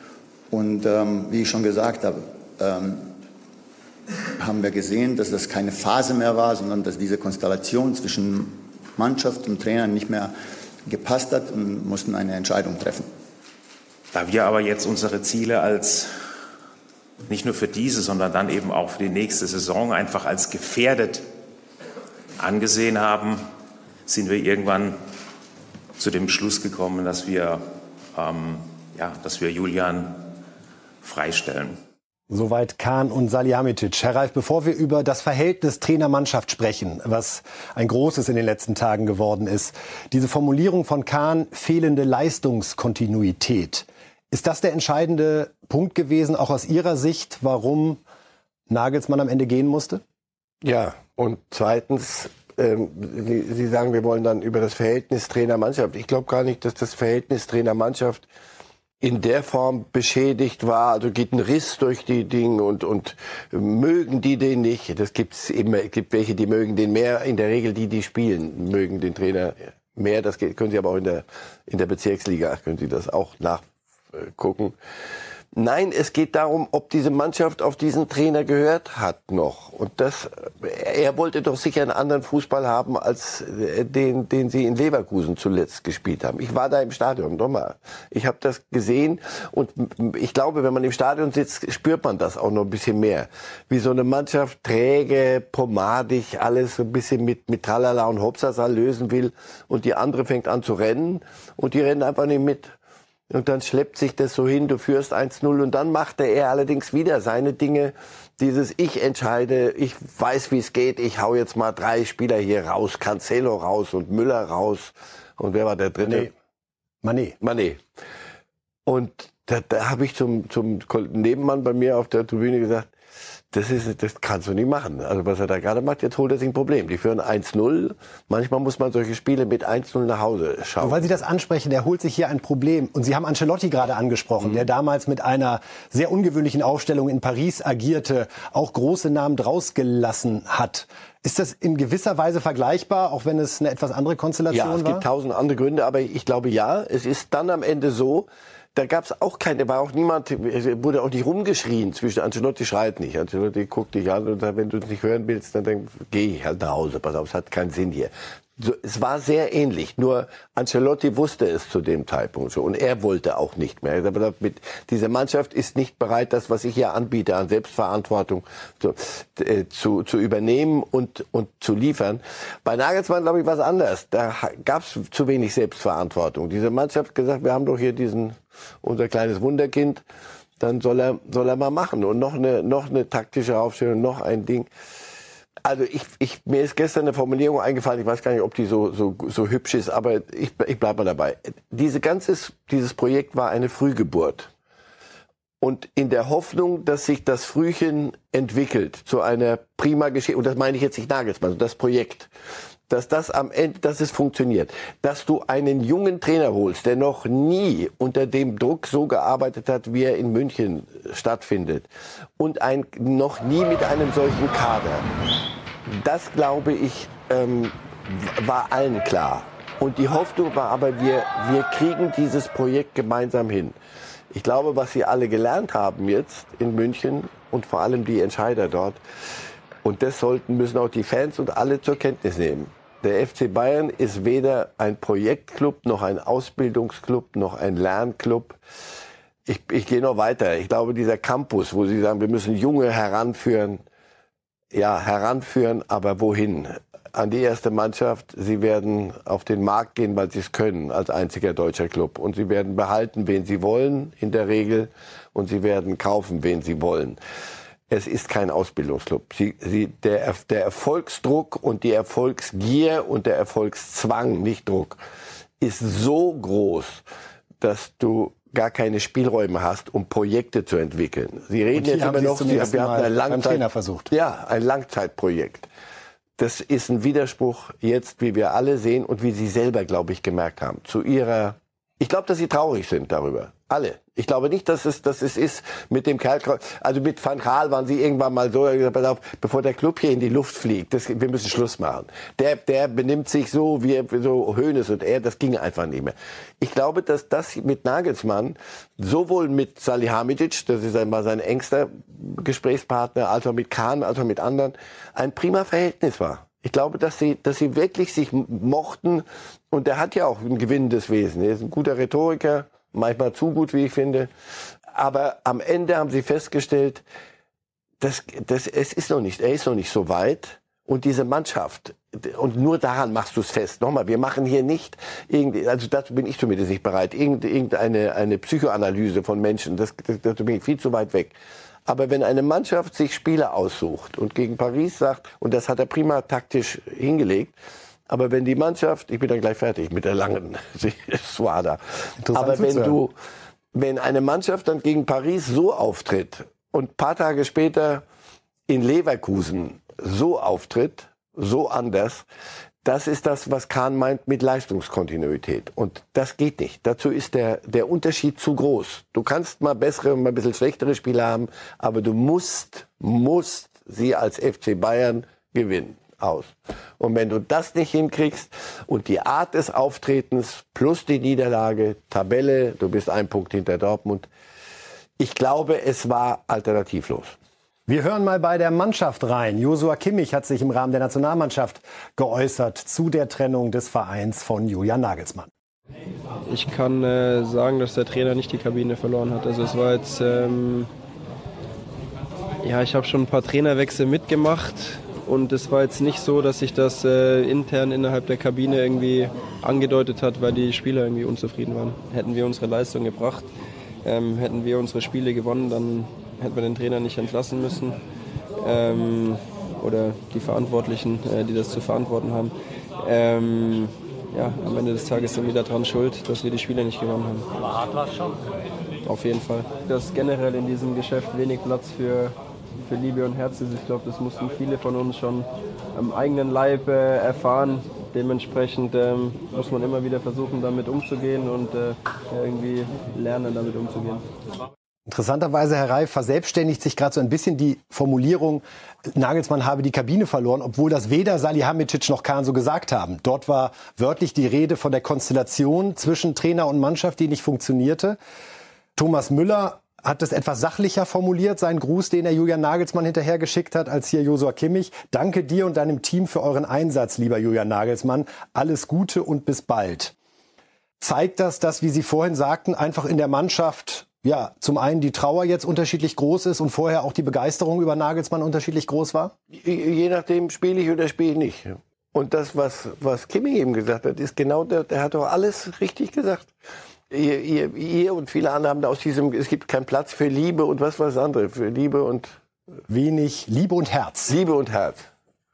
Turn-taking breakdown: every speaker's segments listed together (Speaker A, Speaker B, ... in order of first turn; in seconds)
Speaker A: 0.5-3.1, 4.4-10.3, 10.9-13.1
Speaker B: 14.1-16.1, 17.3-21.3, 22.4-23.4, 24.1-25.0, 26.0-30.4, 31.0-31.8
Speaker C: 32.3-48.0, 48.7-50.0, 116.0-116.3, 117.0-117.4, 130.8-145.1, 271.7-274.1, 342.2-343.0, 377.9-385.5, 435.1-448.2, 448.9-460.1, 461.0-469.3, 482.9-484.3
Speaker D: 50.6-58.2, 59.0-74.8, 75.5-102.7, 103.3-116.3, 117.4-117.8, 118.9-122.9, 123.5-131.2, 144.5-180.0, 180.6-184.7, 185.7-194.5, 195.6-202.3, 202.9-215.1, 215.9-223.8, 224.3-229.0, 229.8-238.6, 239.4-243.8, 244.7-257.2, 257.9-265.0, 265.6-267.0, 267.6-275.7, 276.4-314.3, 314.9-317.0, 318.0-331.3, 331.9-337.5, 338.1-343.1, 343.7-348.0, 348.7-352.2, 352.8-374.3, 375.2-377.3, 469.5-476.5, 477.1-482.4, 484.3-485.1
Speaker E: 386.5-390.9, 392.6-403.5, 404.0-408.0, 408.6-418.1, 419.0-434.3